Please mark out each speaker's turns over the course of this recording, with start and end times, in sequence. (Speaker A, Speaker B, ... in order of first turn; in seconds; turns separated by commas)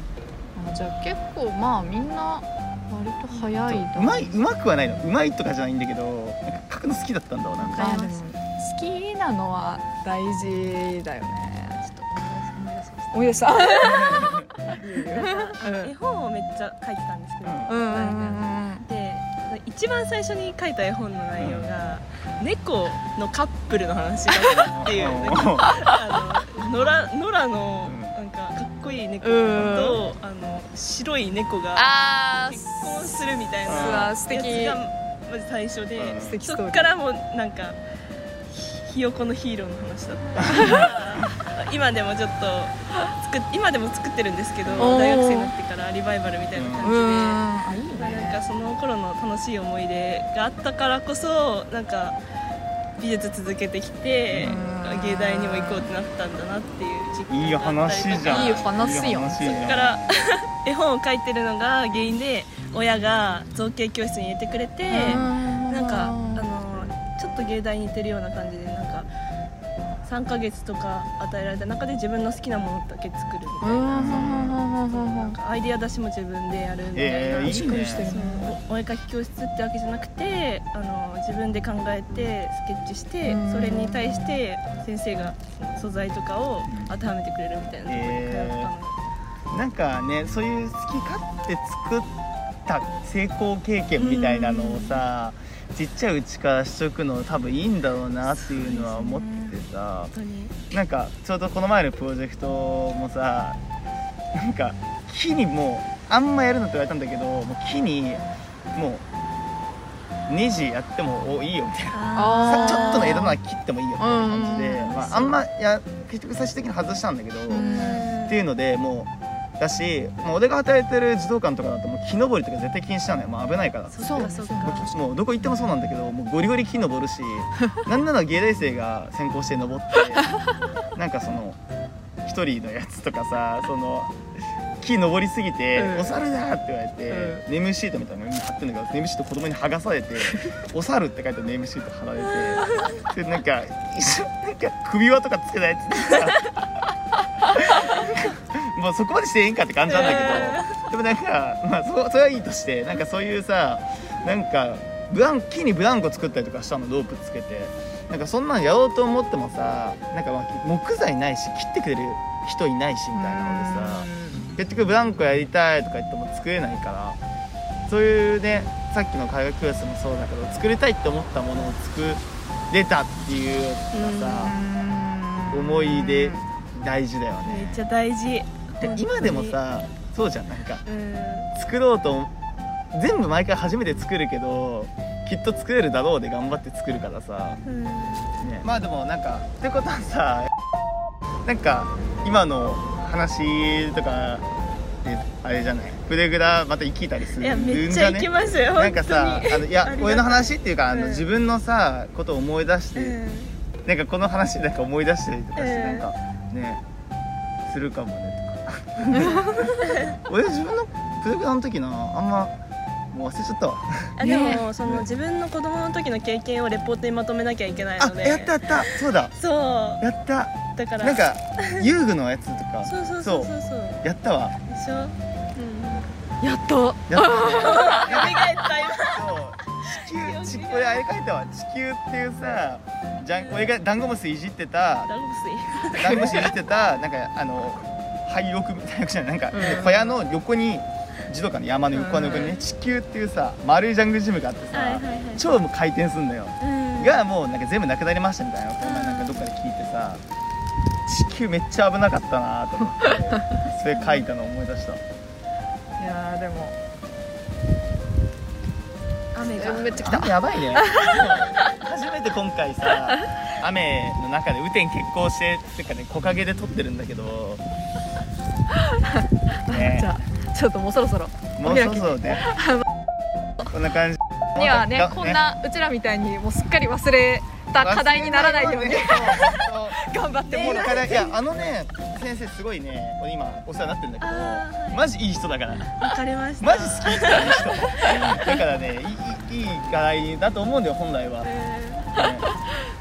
Speaker A: 0.5-4.4, Speaker B: 3.3-3.5, Speaker C: 3.6-7.9, Speaker B: 7.6-8.2, Speaker A: 7.8-11.8, Speaker B: 11.8-13.7, Speaker A: 13.1-15.9, Speaker C: 13.8-14.7, Speaker B: 15.1-31.9, Speaker C: 17.4-17.8, Speaker A: 17.7-18.9, Speaker C: 21.4-21.7, Speaker C: 24.5-25.7, Speaker C: 27.8-28.2, Speaker A: 29.2-30.0, Speaker A: 31.8-34.8, Speaker B: 32.5-37.8, Speaker C: 33.6-34.1, Speaker C: 36.0-36.4, Speaker A: 36.2-37.0, Speaker B: 38.5-52.2, Speaker C: 40.4-41.2, Speaker A: 40.5-40.8, Speaker C: 44.7-45.0, Speaker A: 44.8-45.5, Speaker C: 46.5-46.9, Speaker A: 46.8-48.4, Speaker B: 53.0-58.8, Speaker C: 54.3-54.6, Speaker A: 54.4-55.9, Speaker C: 57.3-60.0, Speaker A: 58.2-59.7, Speaker B: 59.4-69.1, Speaker A: 64.9-66.5, Speaker C: 65.0-65.3, Speaker B: 70.0-89.0, Speaker A: 73.6-75.3, Speaker C: 73.9-74.6, Speaker C: 76.9-78.1, Speaker A: 77.3-78.5, Speaker A: 83.2-84.4, Speaker C: 86.7-86.9, Speaker C: 87.9-88.7, Speaker C: 89.5-92.1, Speaker C: 92.7-100.1, Speaker B: 94.0-95.0, Speaker B: 98.3-99.2, Speaker A: 98.7-99.5, Speaker B: 100.1-100.6, Speaker C: 100.7-103.6, Speaker C: 104.3-109.0, Speaker C: 110.3-130.3, Speaker B: 111.9-113.3, Speaker A: 112.1-113.4, Speaker A: 114.0-115.3, Speaker A: 117.5-118.1, Speaker B: 117.5-118.4, Speaker B: 123.9-124.9, Speaker A: 124.0-124.9, Speaker C: 130.9-131.6, Speaker C: 132.2-134.2, Speaker C: 134.8-146.7, Speaker A: 135.7-136.2, Speaker A: 137.1-137.4, Speaker A: 140.3-140.6, Speaker C: 147.4-167.2, Speaker B: 149.9-150.8, Speaker A: 163.1-164.5, Speaker C: 167.9-174.6, Speaker B: 173.9-174.5, Speaker A: 174.4-176.4, Speaker C: 175.5-177.8, Speaker B: 177.4-179.6, Speaker C: 178.8-180.8, Speaker B: 180.8-181.5, Speaker C: 181.5-182.3, Speaker C: 182.9-187.6, Speaker B: 187.7-188.3, Speaker C: 188.4-190.5, Speaker C: 191.4-194.4, Speaker C: 195.0-203.2, Speaker B: 197.4-201.3, Speaker B: 202.9-203.5, Speaker C: 203.8-206.8, Speaker B: 205.6-206.1, Speaker C: 207.6-212.5, Speaker A: 209.1-209.8, Speaker C: 213.1-215.1, Speaker B: 214.2-220.0, Speaker A: 214.2-214.6, Speaker C: 218.0-219.3, Speaker C: 220.0-224.6, Speaker B: 220.7-221.9, Speaker B: 222.8-224.0, Speaker B: 224.7-226.1, Speaker A: 226.4-228.1, Speaker C: 227.1-235.1, Speaker B: 227.4-231.1, Speaker B: 233.3-233.7, Speaker B: 235.1-236.4, Speaker C: 235.9-250.2, Speaker A: 236.0-236.5, Speaker A: 239.5-240.2, Speaker B: 239.6-239.9, Speaker A: 241.9-242.5, Speaker B: 242.2-242.7, Speaker B: 244.7-245.5, Speaker B: 246.6-247.2, Speaker B: 248.8-249.5, Speaker C: 251.1-255.0, Speaker A: 253.0-253.6, Speaker B: 253.7-254.3, Speaker A: 256.0-256.8, Speaker B: 259.3-260.1, Speaker A: 259.5-261.7, Speaker C: 259.6-267.6, Speaker A: 268.8-272.8, Speaker C: 269.7-270.1, Speaker C: 271.6-272.5, Speaker C: 273.7-275.4, Speaker A: 274.5-281.3, Speaker C: 277.8-286.0, Speaker B: 280.4-281.3, Speaker B: 284.2-285.0, Speaker B: 285.9-288.6, Speaker C: 286.6-291.5, Speaker B: 291.4-292.2, Speaker C: 292.1-292.5